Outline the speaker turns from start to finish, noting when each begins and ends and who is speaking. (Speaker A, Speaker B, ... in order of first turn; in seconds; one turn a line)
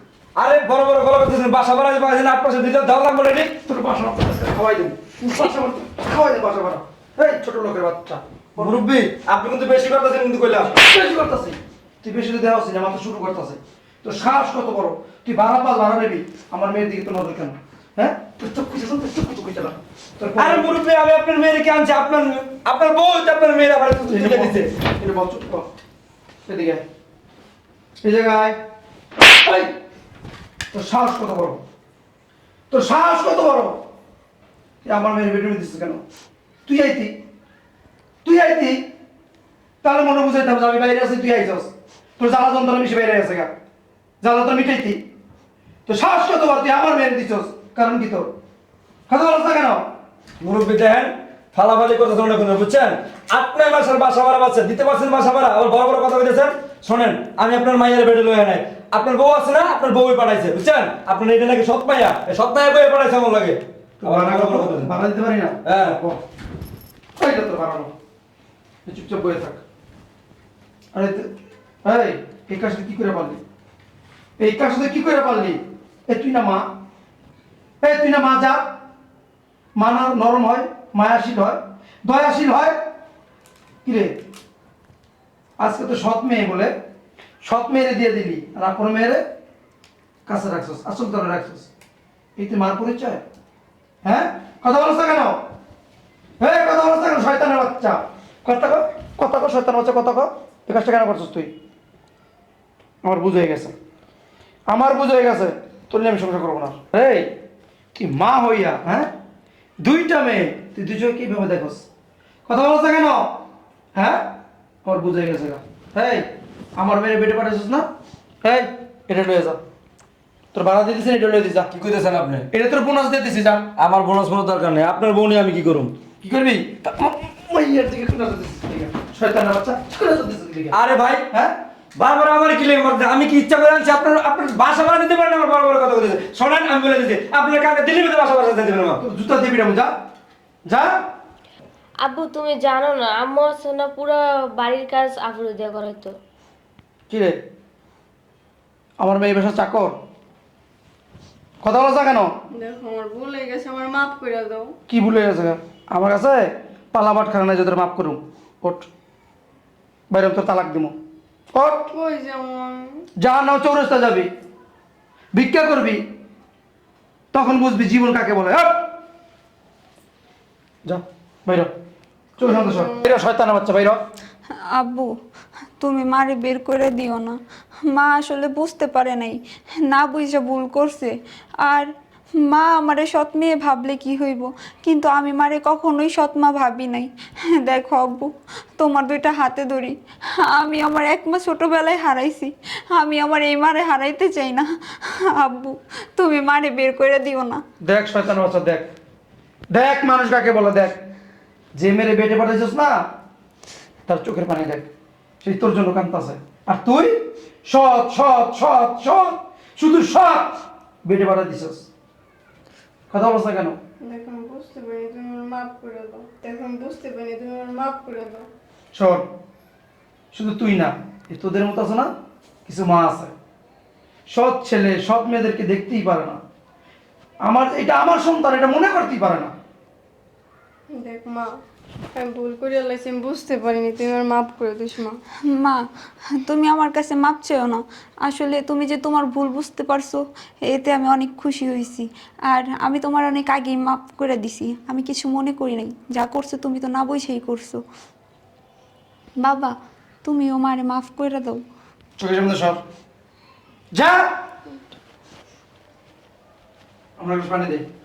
Speaker A: 0.4-3.5
Speaker B: 3.6-8.8
Speaker A: 8.6-10.7
Speaker B: 10.7-20.7
Speaker A: 20.4-24.7
Speaker B: 24.0-25.7
Speaker B: 26.5-26.9
Speaker B: 28.0-28.6
Speaker B: 29.4-29.7
Speaker B: 30.7-31.6
Speaker B: 32.7-33.8
Speaker B: 34.8-36.0
Speaker B: 36.7-37.1
Speaker B: 38.2-38.9
Speaker B: 39.8-43.5
Speaker B: 44.2-45.0
Speaker B: 45.9-48.3
Speaker B: 49.1-49.9
Speaker A: 50.4-64.9
Speaker B: 64.0-66.2
Speaker A: 65.7-66.0
Speaker B: 67.2-67.9
Speaker B: 68.9-69.6
Speaker B: 70.9-71.3
Speaker B: 71.8-73.4
Speaker B: 74.4-76.7
Speaker B: 77.8-78.7
Speaker B: 79.8-82.8
Speaker B: 83.8-84.2
Speaker B: 85.6-86.7
Speaker B: 87.4-89.2
Speaker B: 90.3-91.7
Speaker B: 92.4-93.2
Speaker B: 94.0-95.4
Speaker B: 96.4-101.5
Speaker B: 103.0-103.7
Speaker B: 104.7-107.3
Speaker B: 108.0-109.1
Speaker B: 109.8-111.8
Speaker B: 112.5-113.4
Speaker B: 114.0-114.3
Speaker B: 114.8-117.9
Speaker B: 118.4-119.6
Speaker B: 120.5-121.7
Speaker A: 121.7-122.5
Speaker B: 122.5-123.7
Speaker A: 123.8-126.0
Speaker B: 126.2-130.8
Speaker A: 130.7-131.3
Speaker B: 131.3-131.6
Speaker A: 132.0-139.0
Speaker B: 139.0-139.9
Speaker B: 140.7-141.0
Speaker C: 142.0-146.1
Speaker B: 147.1-147.4
Speaker B: 149.0-149.9
Speaker B: 151.6-152.3
Speaker D: 152.6-154.8
Speaker B: 154.9-158.9
Speaker B: 160.1-160.9
Speaker B: 161.5-161.9
Speaker D: 161.9-163.1
Speaker B: 163.2-164.3
Speaker B: 165.3-166.0
Speaker B: 167.3-168.8
Speaker B: 170.8-171.7
Speaker B: 172.4-174.0
Speaker D: 172.4-173.0
Speaker E: 174.7-175.2
Speaker E: 175.8-197.6
Speaker B: 197.8-198.9
Speaker B: 199.7-201.0
Speaker B: 201.8-203.1
Speaker B: 204.1-204.9
Speaker B: 205.4-207.2
Speaker B: 207.7-211.9
Speaker B: 213.1-213.8
Speaker D: 214.0-218.5
Speaker B: 218.9-219.3
Speaker B: 220.3-222.1
Speaker B: 222.7-223.3
Speaker B: 224.3-226.4
Speaker B: 227.4-229.5
Speaker D: 230.9-231.5
Speaker D: 232.1-235.2
Speaker E: 235.5-235.8
Speaker E: 236.4-247.8
Speaker E: 249.4-251.6
Speaker B: 252.2-252.8
Speaker B: 253.9-254.3
Speaker B: 257.2-257.9